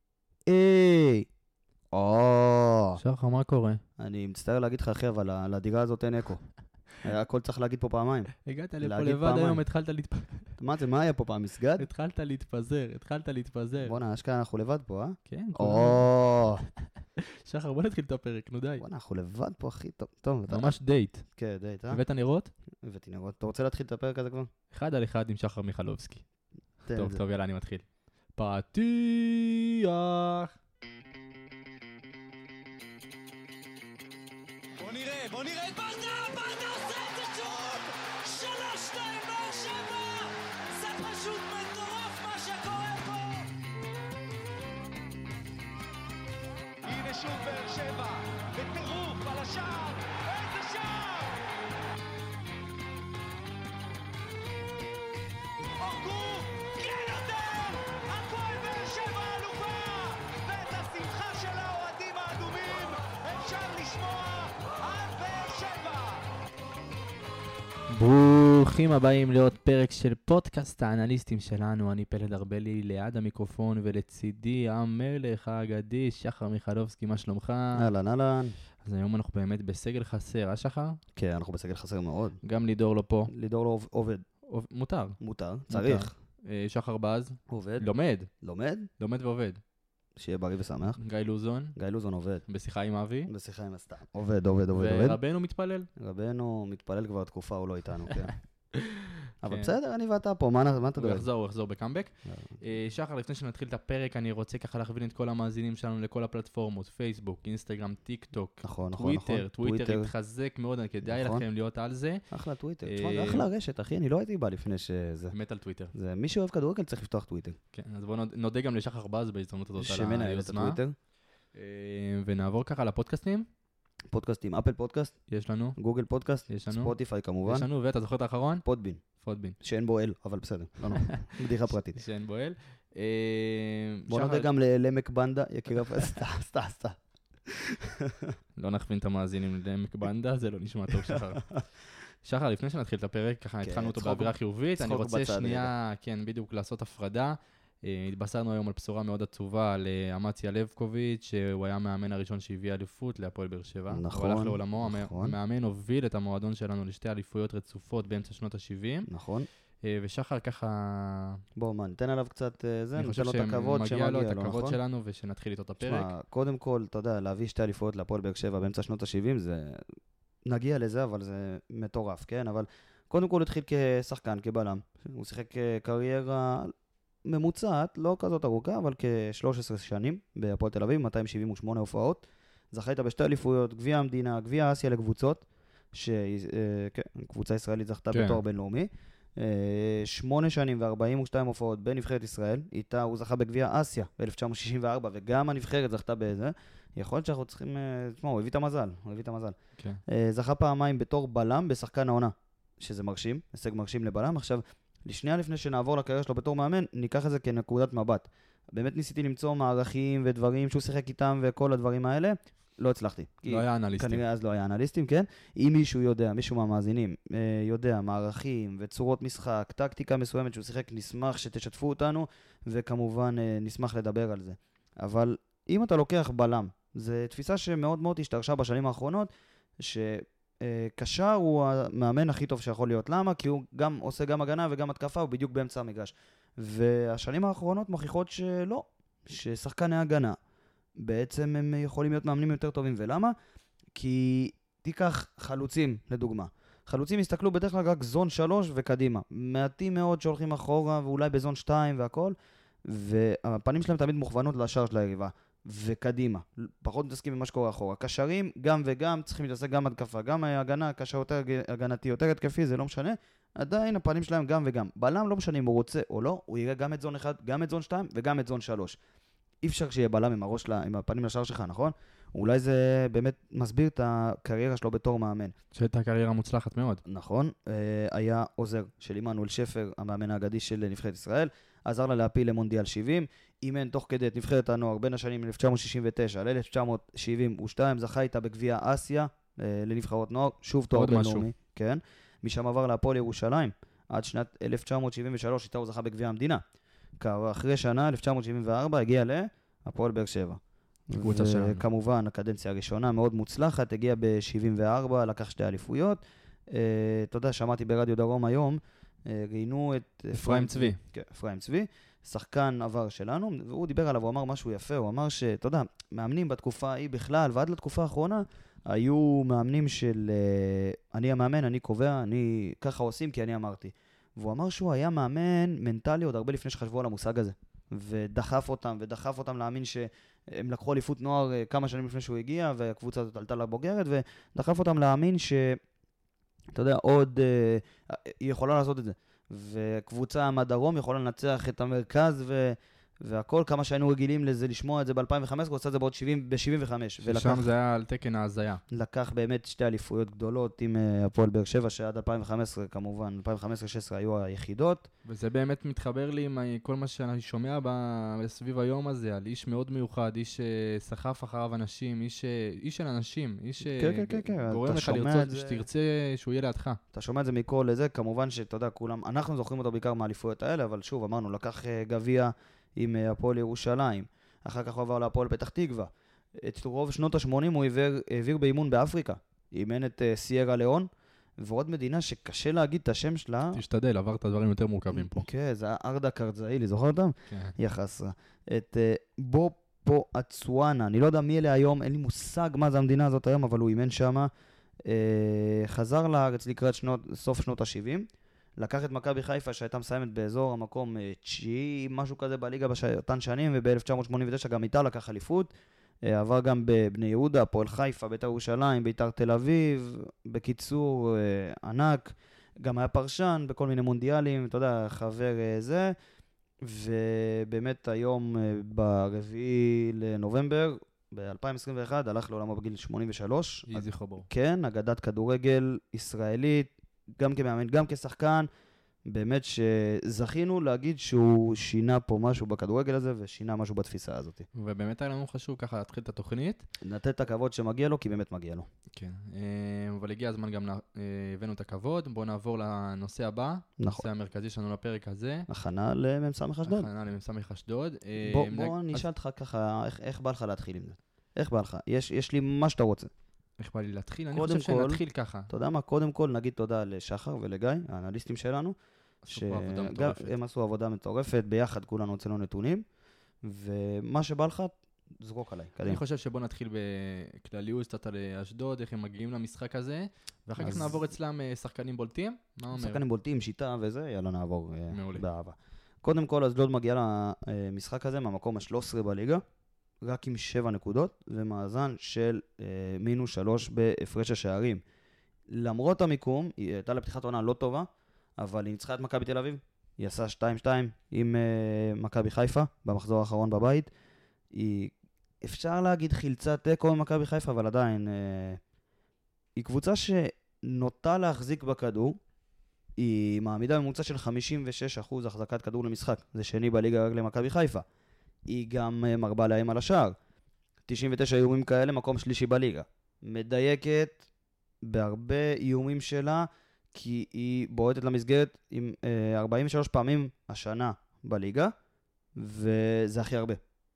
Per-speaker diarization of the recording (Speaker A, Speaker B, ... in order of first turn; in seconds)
Speaker A: 0.5-1.3, 1.9-3.0, 4.0-6.4, 7.0-9.6, 10.6-11.8, 13.8-16.7, 18.8-20.8, 21.3-22.0, 22.8-24.5, 26.9-27.2, 77.7-78.5, 81.2-82.4, 83.3-84.2, 85.2-86.1, 87.5-87.9, 88.4-88.9, 90.2-91.0, 91.7-92.4, 93.3-95.2, 96.0-98.3, 99.4-101.2, 102.3-102.6, 108.6-110.1, 111.0-111.4, 112.3-115.3, 115.9-117.6, 119.8-120.9, 124.1-125.2, 125.8-127.7, 128.6-129.0, 129.6-132.0, 134.1-138.3, 141.1-141.6, 143.6-145.7, 153.9-155.3, 159.1-159.5, 161.6-164.8, 165.8-169.8, 170.4-176.7, 177.2-199.6, 200.1-229.3, 229.8-240.4, 241.0-243.3, 243.9-252.3, 252.9-269.0, 269.6-275.5, 277.1-296.6, 297.2-335.8, 336.7-347.6, 348.9-355.1, 363.8-365.8, 367.1-383.8, 385.1-394.5, 395.0-398.3, 398.8-405.7, 406.2-416.1, 416.8-428.7, 429.3-434.7, 437.0-438.9, 444.0-444.2, 445.7-447.1, 448.4-453.3, 454.5-458.9, 459.5-463.0, 463.6-466.2, 470.8-471.2, 472.9-479.6, 480.2-485.0, 485.7-494.1, 494.7-498.8, 499.8-502.4, 503.2-508.0, 508.7-510.3, 511.1-514.4, 515.0-521.9, 522.6-523.8
Speaker B: 3.0-3.8, 8.4-10.5, 11.8-14.0, 15.3-16.1, 17.2-18.8, 20.5-21.2, 21.9-22.5, 24.7-26.2, 26.9-30.6, 67.9-77.9, 78.8-81.0, 82.4-83.3, 84.4-85.2, 85.7-88.3, 89.0-89.6, 91.0-91.7, 92.5-93.3, 94.7-95.9, 98.1-99.7, 101.0-112.2, 112.8-113.5, 115.3-115.9, 117.7-120.8, 121.5-123.5, 125.3-125.8, 126.5-126.9, 127.5-129.6, 131.9-134.5, 135.8-136.2, 138.6-141.6, 142.2-159.1, 159.8-161.4, 163.0-166.1, 188.1-188.4, 213.5-214.2, 275.7-277.0, 290.9-291.5, 301.2-301.8, 310.3-311.0, 347.2-348.8, 355.2-367.0, 383.7-385.4, 423.9-424.5, 434.7-436.9, 439.1-445.7, 446.8-449.2, 453.8-455.7, 459.4-460.5, 466.0-473.2, 475.1-475.4
Speaker C: 34.8-43.5, 46.8-51.4, 55.8-66.3